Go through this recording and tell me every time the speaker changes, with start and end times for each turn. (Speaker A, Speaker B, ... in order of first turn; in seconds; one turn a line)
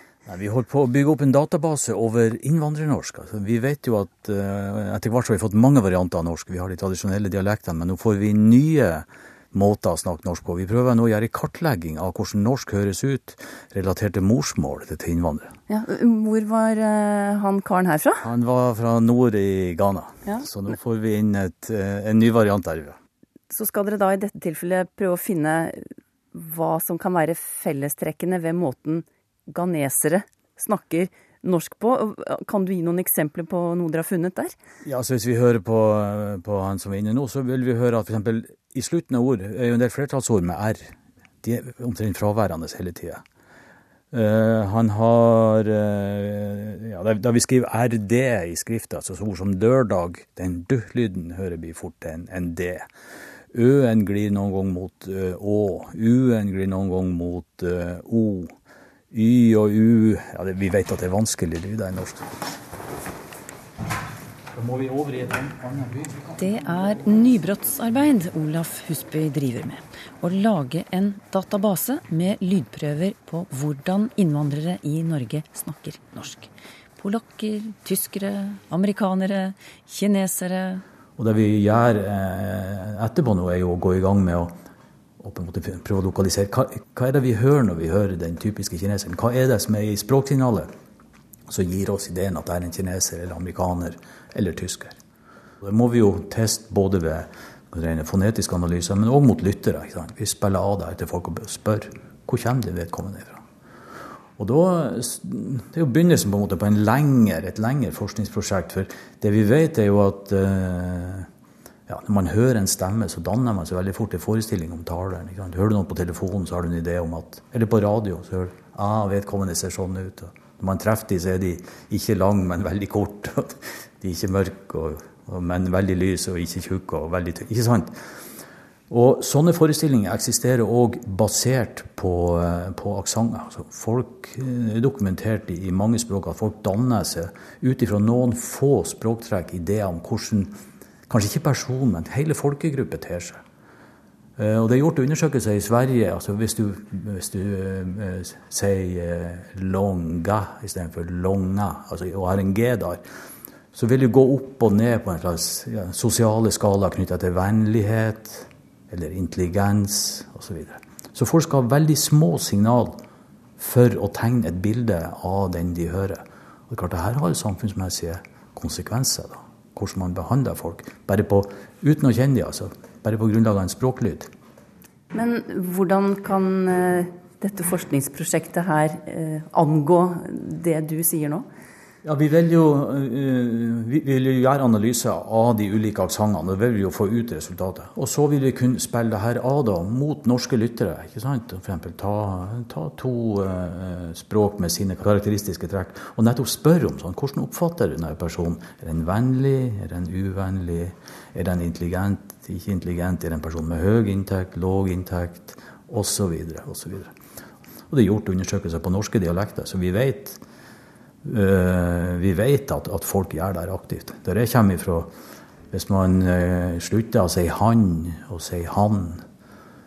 Speaker A: 0.3-15.5
Speaker B: 15.7-18.2
Speaker A: 18.2-23.0
Speaker B: 23.5-34.5
Speaker A: 34.8-43.2
Speaker A: 44.1-52.9
Speaker A: 53.5-58.5
Speaker A: 59.1-62.3
Speaker A: 64.5-66.4
Speaker B: 66.4-80.8
Speaker A: 81.2-84.5
Speaker A: 85.2-90.7
Speaker A: 91.5-95.0
Speaker A: 95.6-103.4
Speaker A: 104.4-111.3
Speaker A: 111.9-128.0
Speaker A: 128.9-140.6
Speaker A: 141.1-143.4
Speaker A: 144.4-153.0
Speaker A: 153.7-163.0
Speaker A: 163.6-174.3
Speaker B: 175.1-181.5
Speaker A: 182.0-207.1
Speaker A: 207.9-210.4
Speaker A: 211.2-215.1
Speaker A: 215.7-219.2